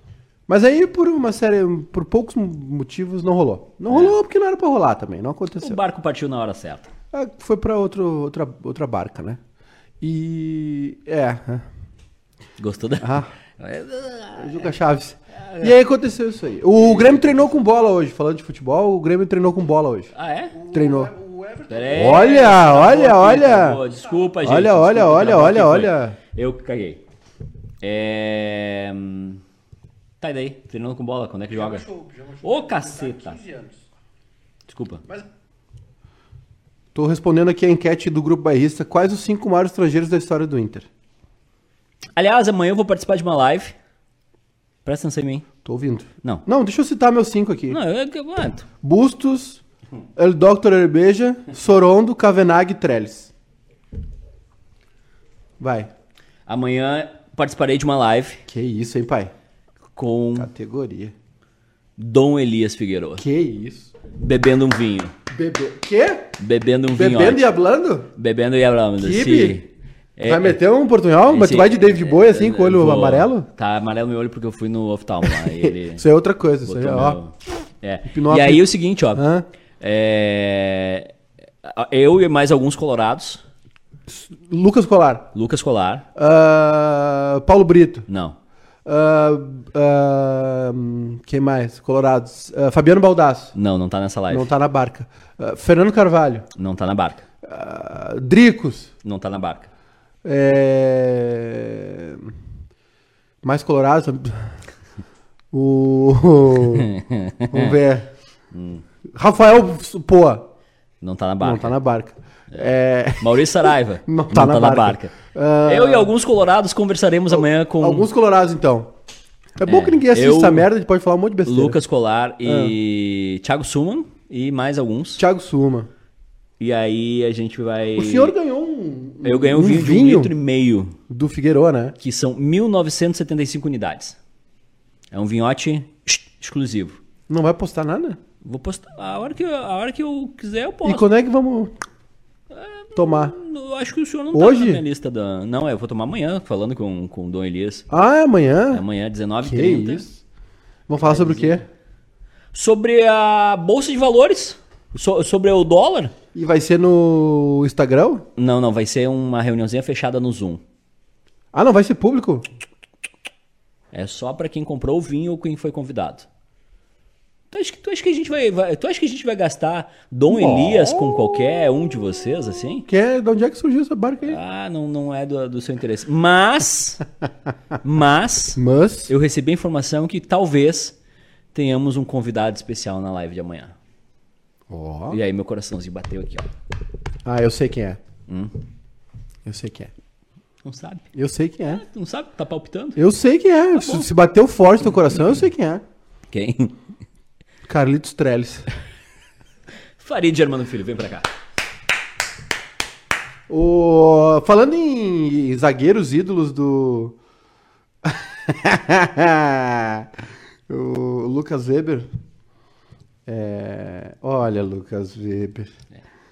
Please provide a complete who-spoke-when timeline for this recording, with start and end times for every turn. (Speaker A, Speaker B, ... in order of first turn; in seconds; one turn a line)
Speaker A: 0.5-5.8
Speaker B: 3.9-4.2
Speaker B: 5.6-6.9
Speaker A: 7.1-9.4
Speaker A: 10.0-11.7
Speaker B: 12.6-14.7
Speaker A: 13.0-13.3
Speaker A: 14.3-23.8
Speaker B: 15.3-15.7
Speaker B: 16.8-17.6
Speaker B: 20.1-21.0
Speaker B: 21.7-27.0
Speaker A: 24.3-26.2
Speaker B: 27.8-29.4
Speaker B: 30.2-31.9
Speaker A: 31.5-33.8
Speaker B: 32.4-33.4
Speaker B: 34.7-35.0
Speaker A: 36.9-40.9
Speaker B: 42.1-43.7
Speaker B: 44.8-45.5
Speaker A: 45.6-47.8
Speaker B: 47.7-48.7
Speaker A: 48.8-49.6
Speaker A: 50.1-53.3
Speaker A: 55.6-55.9
Speaker B: 56.5-58.4
Speaker A: 58.5-59.3
Speaker B: 60.0-60.5
Speaker A: 60.4-61.1
Speaker B: 62.0-63.2
Speaker A: 63.2-63.9
Speaker B: 64.1-65.1
Speaker A: 65.3-66.3
Speaker B: 66.4-67.4
Speaker A: 66.9-68.1
Speaker B: 68.2-70.6
Speaker A: 69.0-69.6
Speaker A: 70.2-73.5
Speaker B: 71.3-76.0
Speaker A: 75.3-77.2
Speaker B: 76.6-79.2
Speaker A: 78.1-79.5
Speaker B: 79.8-83.4
Speaker A: 84.1-85.3
Speaker B: 85.3-86.0
Speaker A: 86.1-88.1
Speaker B: 88.1-88.4
Speaker A: 88.8-93.5
Speaker B: 93.5-94.5
Speaker A: 94.3-96.5
Speaker B: 96.5-97.2
Speaker A: 97.4-98.9
Speaker B: 99.0-99.7
Speaker A: 100.2-102.3
Speaker A: 103.4-104.6
Speaker A: 105.5-106.9
Speaker B: 106.6-107.8
Speaker A: 107.5-108.1
Speaker B: 108.5-108.8
Speaker A: 109.1-110.5
Speaker B: 111.0-111.7
Speaker A: 111.4-116.1
Speaker B: 113.2-115.1
Speaker B: 115.7-118.1
Speaker A: 117.3-118.9
Speaker A: 119.6-121.8
Speaker B: 119.7-120.7
Speaker B: 121.4-125.2
Speaker A: 122.4-122.7
Speaker A: 125.2-125.9
Speaker B: 126.6-128.3
Speaker A: 128.0-130.3
Speaker B: 129.2-130.9
Speaker A: 131.1-131.9
Speaker B: 132.0-134.2
Speaker B: 135.1-137.0
Speaker A: 137.3-138.2
Speaker B: 138.4-141.1
Speaker A: 140.8-141.7
Speaker B: 142.5-147.8
Speaker A: 142.9-143.3
Speaker A: 144.3-144.8
Speaker A: 147.9-148.8
Speaker B: 148.7-150.1
Speaker A: 149.4-150.2
Speaker A: 150.9-151.6
Speaker B: 151.0-151.6
Speaker B: 152.5-156.1
Speaker A: 156.3-158.2
Speaker B: 158.3-160.6
Speaker A: 161.5-162.5
Speaker B: 163.9-166.3
Speaker B: 167.5-172.9
Speaker A: 170.3-171.6
Speaker A: 172.9-174.4
Speaker B: 174.2-177.0
Speaker B: 177.8-180.9
Speaker A: 178.6-179.1
Speaker B: 181.5-183.7
Speaker A: 184.7-185.2
Speaker B: 185.1-186.5
Speaker A: 187.2-188.0
Speaker B: 188.3-188.5
Speaker A: 189.4-189.9
Speaker B: 190.6-191.1
Speaker A: 191.1-191.8
Speaker B: 191.6-193.0
Speaker A: 192.9-195.8
Speaker B: 193.7-194.1
Speaker B: 196.3-196.7
Speaker A: 197.7-198.7
Speaker B: 200.0-201.3
Speaker A: 203.5-207.2
Speaker A: 208.0-212.1
Speaker A: 213.2-215.7